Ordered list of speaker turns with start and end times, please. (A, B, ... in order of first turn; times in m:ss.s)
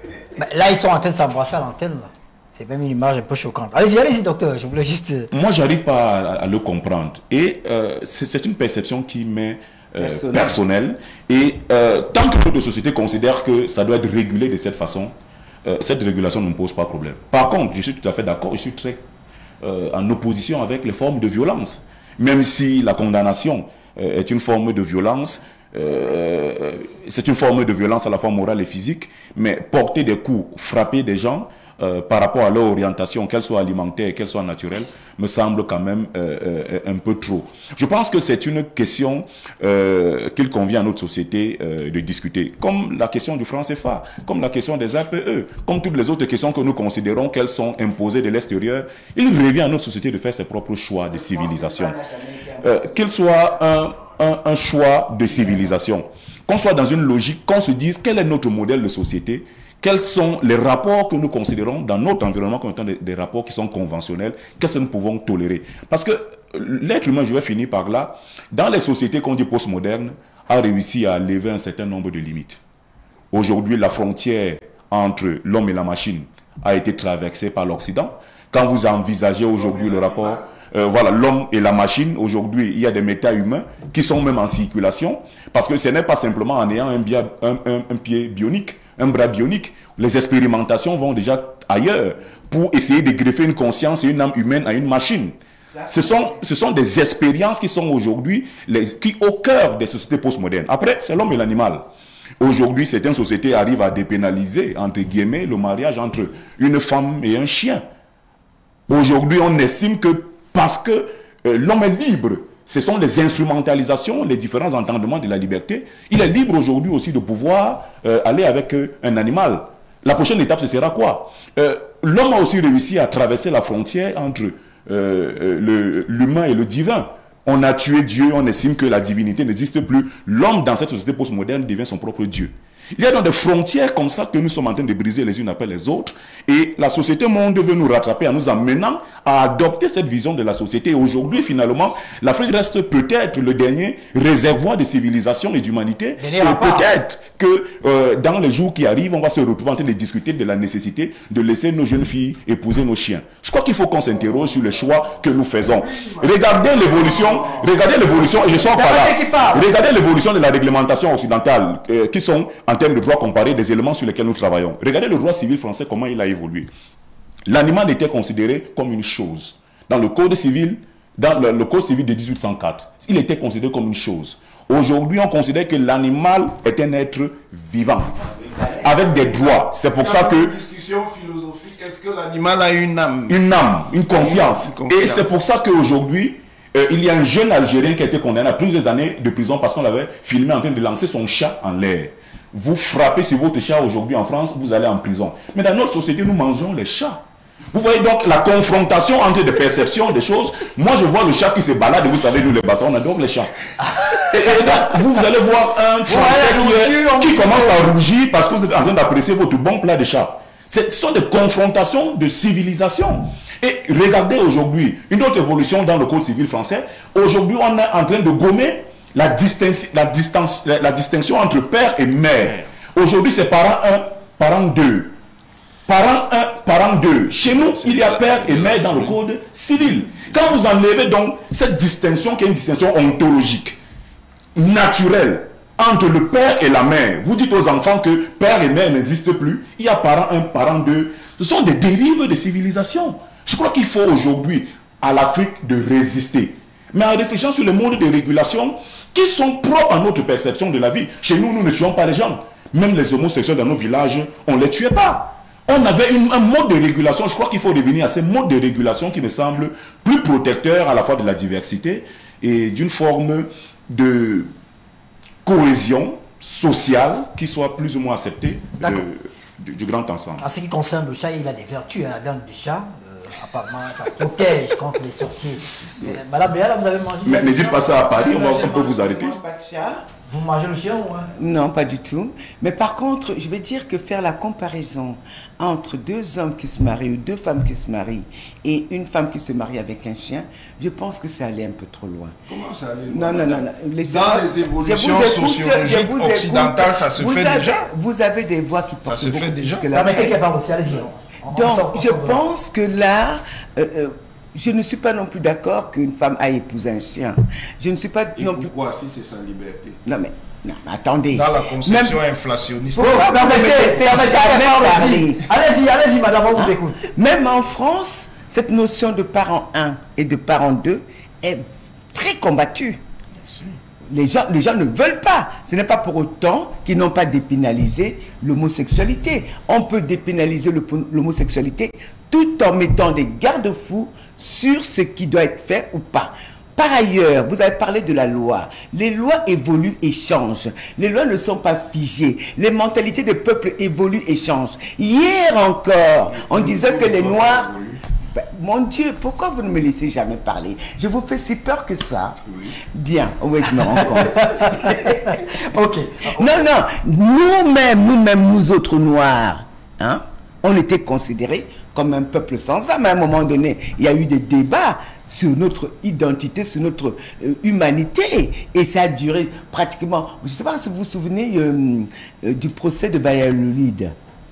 0:00.4-0:05.3 A
0:05.3-0:19.1 B
0:10.0-0:10.6 C
0:19.6-0:52.0 B
0:51.1-0:52.9 C
0:52.6-1:12.6 B
0:55.3-0:55.7 C
1:13.3-1:41.9 B
1:19.6-1:20.4 D
1:35.8-1:36.1 C
1:42.4-1:47.8 B
1:48.9-2:46.7 B
2:26.2-2:26.9 A
2:38.7-2:39.7 A
2:47.5-2:58.2 B
2:58.4-2:58.9 C
2:58.8-3:00.5 B
2:59.9-3:03.4 D
3:03.3-3:23.5 B
3:04.1-3:05.3 D
3:24.0-3:24.6 A
3:24.2-3:45.2 B
3:26.1-3:27.9 A
3:45.9-3:53.8 B
3:47.4-3:49.2 D
3:54.6-4:24.5 B
4:25.4-4:30.4 B
4:28.8-4:29.1 A
4:30.4-4:38.0 A
4:37.2-4:39.4 B
4:38.0-4:40.1 C
4:40.3-4:41.3 A
4:41.4-4:52.4 C
4:52.5-4:57.9 D
4:53.1-5:00.4 C
4:59.0-4:59.9 D
4:59.9-5:02.4 A
5:01.5-5:08.7 C
5:08.4-5:10.0 D
5:10.0-5:12.2 C
5:11.3-5:13.8 D
5:12.9-5:15.5 C
5:13.0-5:17.0 A
5:16.6-5:23.0 C
5:23.5-5:23.8 D
5:24.1-5:47.7 C
5:46.3-5:48.0 D
5:48.3-5:55.5 C
5:52.5-5:52.7 D
5:54.0-5:56.6 A
5:56.2-6:14.2 C